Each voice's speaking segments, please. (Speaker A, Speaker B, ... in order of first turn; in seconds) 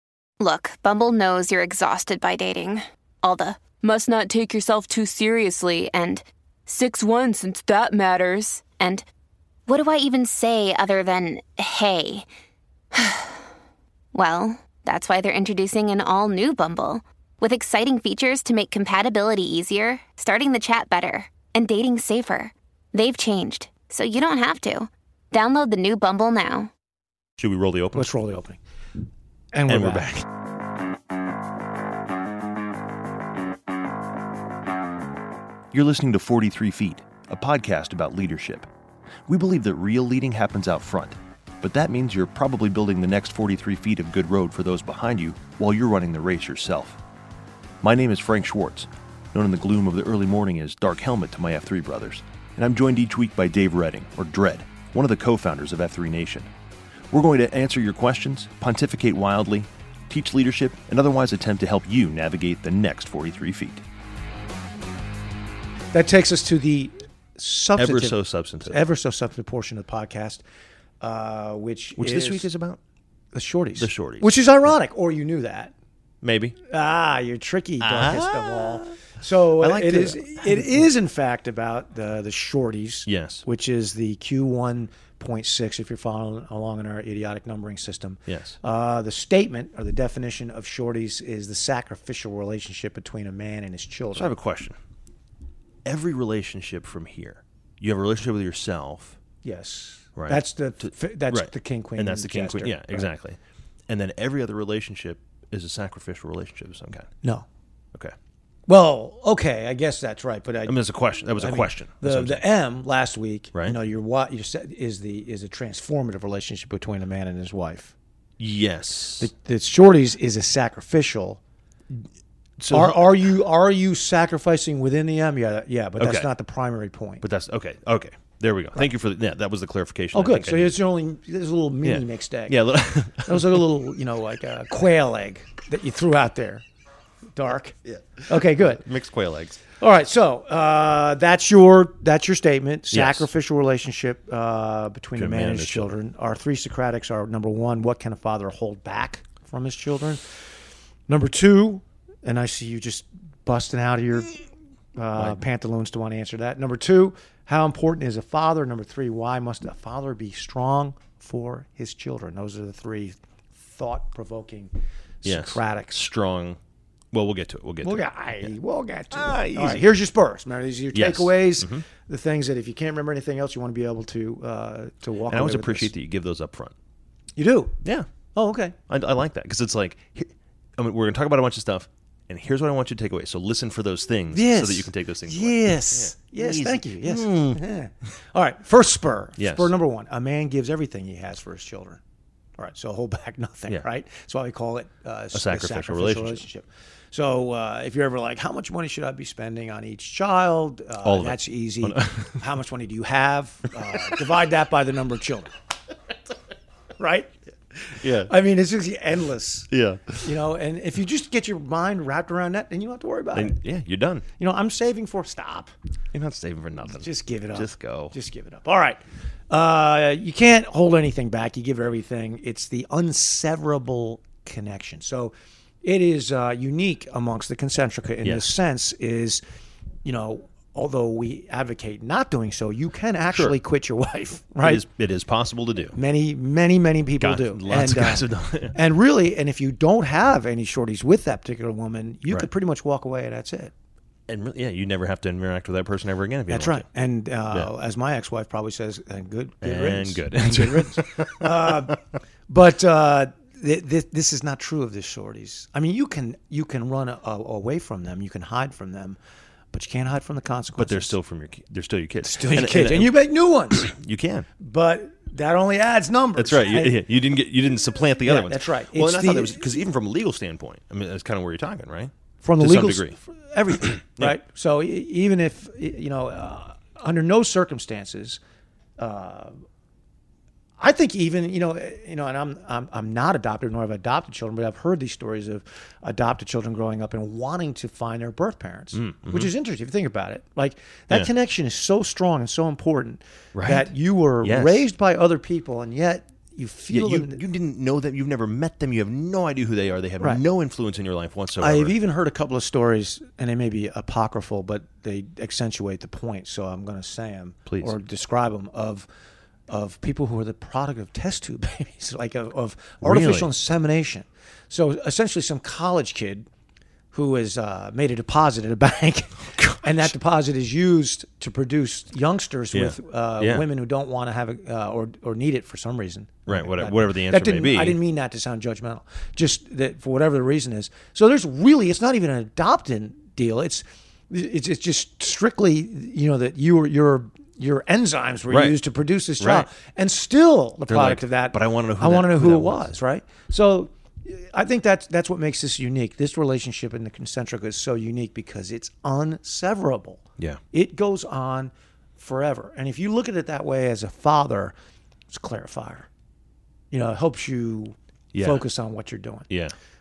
Speaker A: 0.4-9.1, 9.7-12.3, 12.9-13.4, 14.1-26.7
Speaker B: 27.4-28.1, 29.7-30.1, 35.7-38.7, 39.3-47.0, 47.8-56.5, 57.1-63.8, 67.8-68.8, 72.0-72.8, 73.8-74.7, 76.2-76.6, 77.8-79.0, 79.6-80.7, 83.1-83.4, 88.3-88.6, 94.1-94.8, 95.8-99.2, 100.2-103.4, 103.9-107.1, 110.7-112.5, 118.4-119.3, 122.6-123.1, 126.0-126.3, 127.2-130.8, 131.8-133.9, 137.8-139.6, 142.9-143.3, 145.2-145.9, 165.2-166.6, 167.1-168.5, 169.1-169.9, 170.9-171.8, 175.3-176.7, 178.9-187.6, 189.4-189.7, 195.3-196.4, 201.0-202.5, 203.8-204.3, 207.9-208.3, 209.7-210.4, 213.3-214.3, 216.1-218.2, 234.6-236.0, 237.2-238.8, 244.3-246.9, 249.6-252.0, 260.8-263.2, 263.7-264.5, 266.4-273.2, 273.8-274.4, 288.9-289.5, 293.6-293.9, 294.4-294.9, 296.9-302.0, 307.7-307.9, 313.0-313.5, 319.6-320.1, 322.7-323.7, 326.5-328.0, 338.5-338.8, 339.4-339.7, 340.9-343.0, 358.3-358.7, 359.5-359.8
Speaker C: 27.9-28.6, 29.5-30.2, 65.9-70.4, 71.0-72.5, 73.3-75.7, 76.7-94.4, 99.4-103.1, 108.7-110.8, 111.4-117.9, 119.2-121.4, 122.7-127.2, 130.1-132.6, 133.2-136.7, 137.3-137.8, 138.3-138.8, 139.8-150.2, 151.1-154.4, 154.9-164.7, 165.2-166.0, 167.8-175.9, 177.4-177.8, 178.3-178.8, 184.3-192.0, 192.6-205.5, 207.0-209.7, 210.2-213.6, 214.4-215.7, 216.9-229.4, 230.0-234.8, 235.9-243.7, 246.5-259.2, 259.7-261.1, 262.2-263.9, 264.6-267.0, 268.2-269.6, 272.4-278.4, 279.0-279.6, 280.8-297.4, 301.6-309.1, 309.7-316.5, 317.1-354.8, 355.3-356.1, 356.9-359.5